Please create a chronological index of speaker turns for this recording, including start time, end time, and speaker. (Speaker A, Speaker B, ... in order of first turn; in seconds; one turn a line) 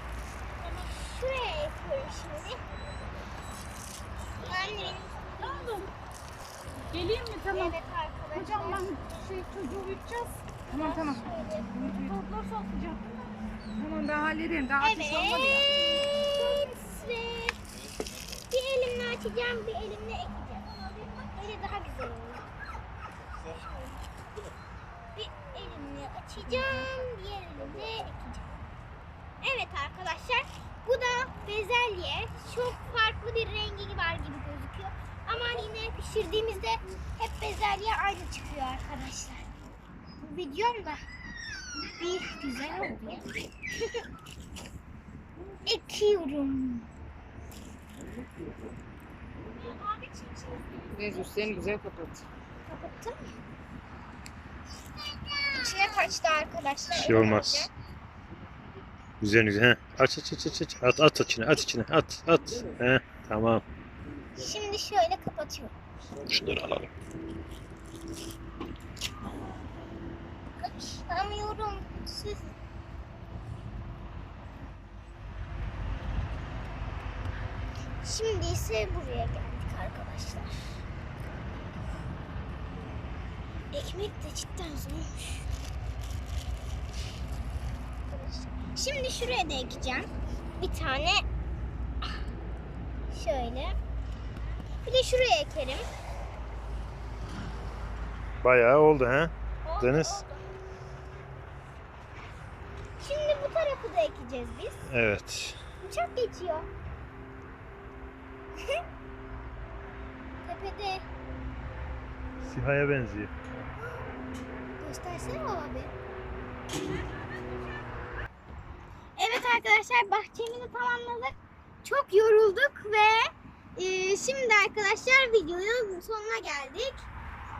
Speaker A: 0.6-2.6
Speaker A: 4.4-5.8
Speaker B: 5.4-5.9
Speaker B: 6.9-7.8
Speaker A: 7.5-8.9
Speaker B: 8.3-15.7
Speaker A: 10.7-11.8
Speaker A: 14.8-17.6
Speaker A: 18.5-22.5
Speaker A: 23.4-24.0
Speaker A: 25.1-28.6
Speaker A: 29.4-39.5
Speaker A: 40.2-41.0
Speaker A: 41.9-43.2
Speaker A: 45.6-46.9
Speaker A: 49.5-51.0
Speaker B: 51.0-52.2
Speaker A: 52.6-53.4
Speaker A: 55.3-57.7
Speaker C: 56.9-57.7
Speaker C: 59.2-63.6
Speaker A: 64.3-65.7
Speaker C: 66.3-66.9
Speaker A: 70.6-72.5
Speaker A: 78.0-80.8
Speaker A: 83.7-85.5
Speaker A: 88.1-91.2
Speaker A: 93.1-93.8
Speaker A: 94.8-95.8
Speaker C: 98.4-100.2
Speaker A: 99.6-100.5
Speaker A: 103.0-104.8
Speaker C: 104.8-105.6
Speaker A: 105.8-106.7
Speaker A: 110.3-111.0
Speaker C: 112.4-113.3
Speaker A: 114.8-115.9
Speaker A: 119.2-127.0